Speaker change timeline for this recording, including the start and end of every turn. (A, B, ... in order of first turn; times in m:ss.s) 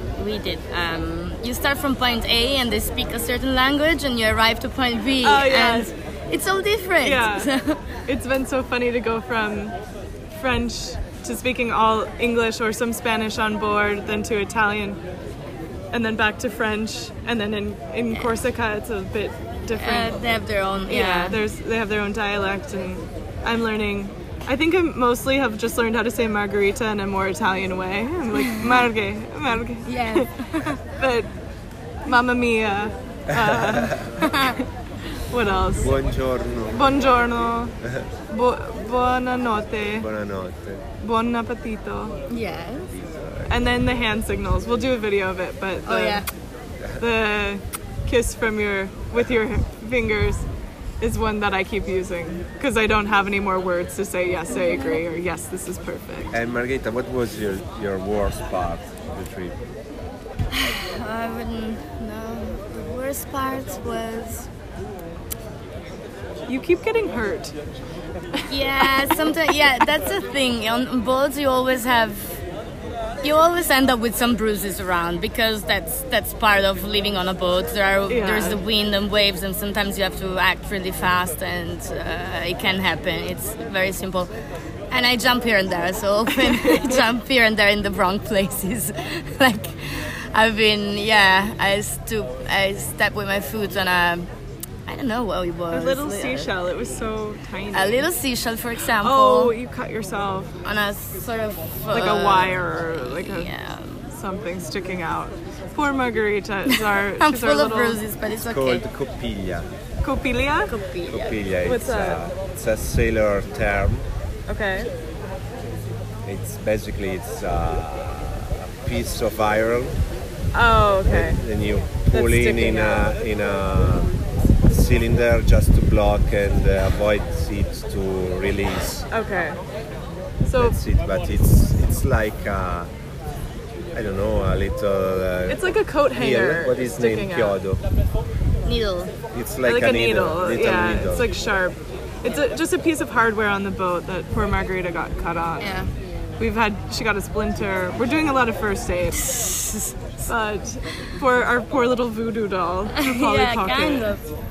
0:00.2-0:08.0 A
0:05.2-0:05.9 B
0:07.0-0:07.5 B
0:08.1-0:09.8 B
0:10.3-0:15.0 B
0:15.9-0:20.2 B
0:18.1-0:18.4 A
0:19.8-0:21.4 A
0:20.9-0:31.3 B
0:28.4-0:28.8 A
0:29.8-0:30.8 A
0:32.0-0:34.7 B
0:33.3-0:34.2 C
0:34.2-0:34.6 A
0:35.3-0:35.9 B
0:35.8-0:36.9 C
0:36.7-0:37.7 B
0:37.8-0:38.1 C
0:38.3-0:40.1 B
0:40.0-0:40.8 C
0:41.0-0:42.2 B
0:42.3-0:42.9 A
0:42.9-0:43.6 C
0:43.5-0:46.2 B
0:45.9-0:46.3 A
0:47.0-0:50.5 B
0:51.0-0:56.3 B
0:54.5-0:55.0 A
0:56.3-0:59.6 C
1:00.5-1:04.5 A
1:06.5-1:07.6 B
1:08.4-1:09.3 B
1:08.5-1:12.4 A
1:13.2-1:24.3 A
1:18.1-1:18.6 B
1:24.9-1:34.3 A
1:26.3-1:27.0 B
1:34.9-1:36.5 A
1:35.7-1:38.1 B
1:37.7-1:39.5 A
1:39.0-1:40.6 B
1:40.6-1:44.1 A
1:41.9-1:43.5 B
1:44.1-1:48.0 B
1:46.7-1:48.8 A
1:48.4-1:49.7 C
1:50.0-1:50.7 B
1:50.7-1:51.4 A
1:51.1-1:54.1 C
1:51.6-1:52.2 B
1:54.5-1:54.9 B
1:56.2-2:00.0 C
2:00.5-2:01.4 B
2:01.1-2:09.1 C
2:02.1-2:03.1 B
2:09.1-2:09.6 B
2:10.4-2:10.8 B
2:10.6-2:12.9 C
2:13.9-2:17.8 C
2:15.5-2:17.6 B
2:18.6-2:19.1 A
2:19.3-2:21.4 C
2:19.6-2:25.8 B
2:25.6-2:25.9 A
2:26.4-2:29.2 B
2:29.3-2:29.9 A
2:30.3-2:34.2 B
2:32.9-2:34.2 A